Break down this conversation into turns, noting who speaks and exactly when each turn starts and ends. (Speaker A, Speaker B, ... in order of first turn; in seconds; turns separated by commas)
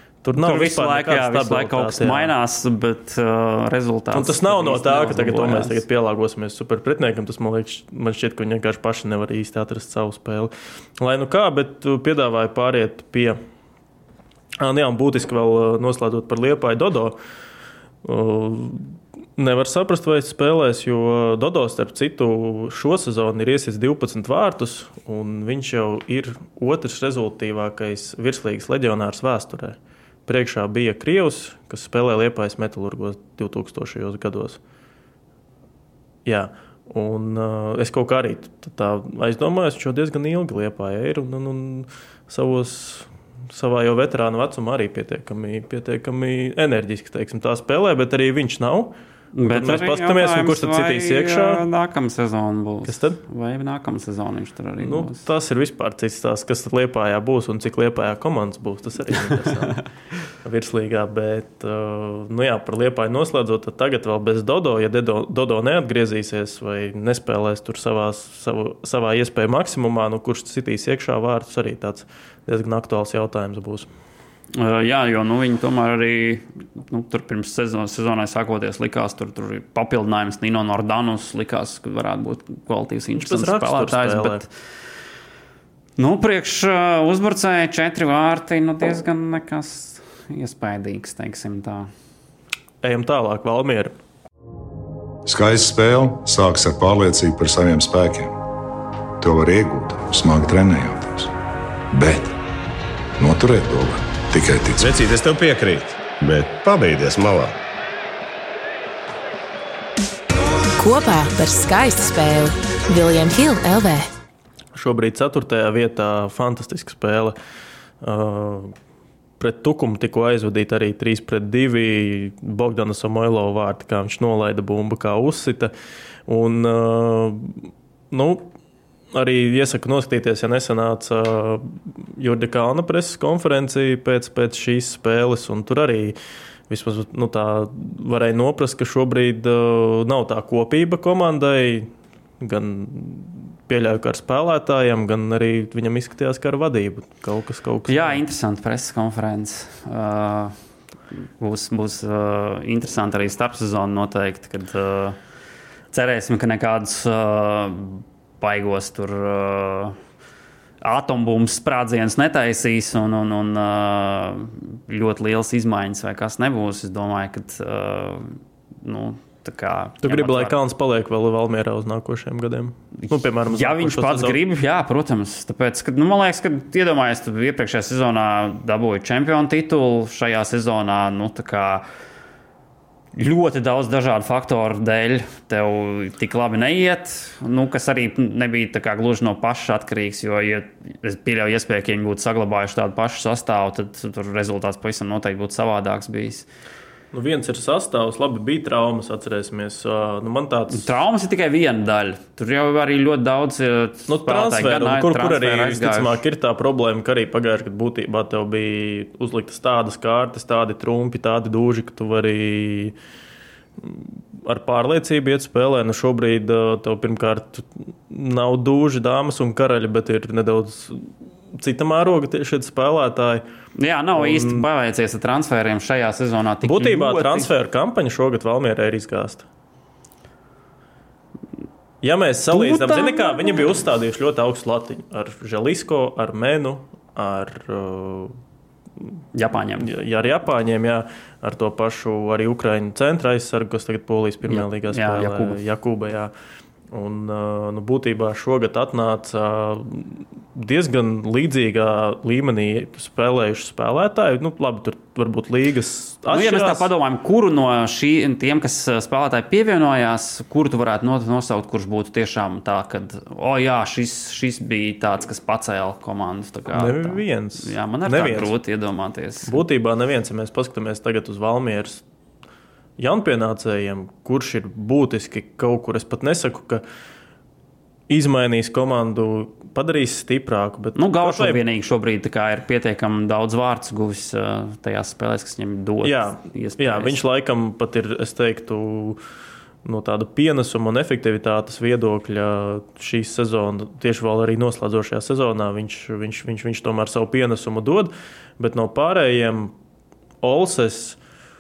Speaker A: 0.2-2.3, Speaker B: 0.4-5.8, Speaker A: 4.1-13.4, Speaker A: 14.6-17.2, Speaker A: 18.0-34.6, Speaker A: 36.2-48.9, Speaker B: 49.4-55.2, Speaker A: 49.5-51.6, Speaker A: 52.9-53.2, Speaker A: 54.8-59.8, Speaker A: 60.4-73.9, Speaker B: 74.5-84.5, Speaker A: 83.2-84.4, Speaker B: 86.0-91.9, Speaker A: 92.8-93.9, Speaker C: 95.3-98.4, Speaker C: 99.2-101.3, Speaker C: 101.9-102.3, Speaker C: 103.2-105.0, Speaker D: 104.8-107.5, Speaker E: 110.8-114.1, Speaker A: 114.8-117.3, Speaker A: 118.0-118.7, Speaker A: 119.4-125.7, Speaker A: 126.3-128.5, Speaker A: 129.1-136.2, Speaker A: 136.7-148.2, Speaker B: 147.9-150.6, Speaker B: 151.4-155.2, Speaker B: 155.9-160.0, Speaker B: 160.8-170.6, Speaker A: 170.0-174.4, Speaker B: 173.0-181.9, Speaker B: 183.2-196.5, Speaker A: 197.1-200.8, Speaker B: 200.7-206.2, Speaker A: 204.1-212.9, Speaker A: 213.8-223.4, Speaker B: 223.8-227.5, Speaker A: 224.2-224.7, Speaker A: 226.6-229.4, Speaker A: 232.0-238.4, Speaker B: 232.5-233.5, Speaker B: 239.3-239.9, Speaker A: 239.8-246.3, Speaker B: 244.5-245.6, Speaker A: 246.9-256.9, Speaker B: 256.3-269.6, Speaker A: 266.7-268.5, Speaker A: 269.5-272.0, Speaker A: 273.0-276.8, Speaker A: 278.1-281.6, Speaker B: 281.0-287.2, Speaker A: 286.0-289.2, Speaker A: 289.9-299.7, Speaker A: 300.4-301.2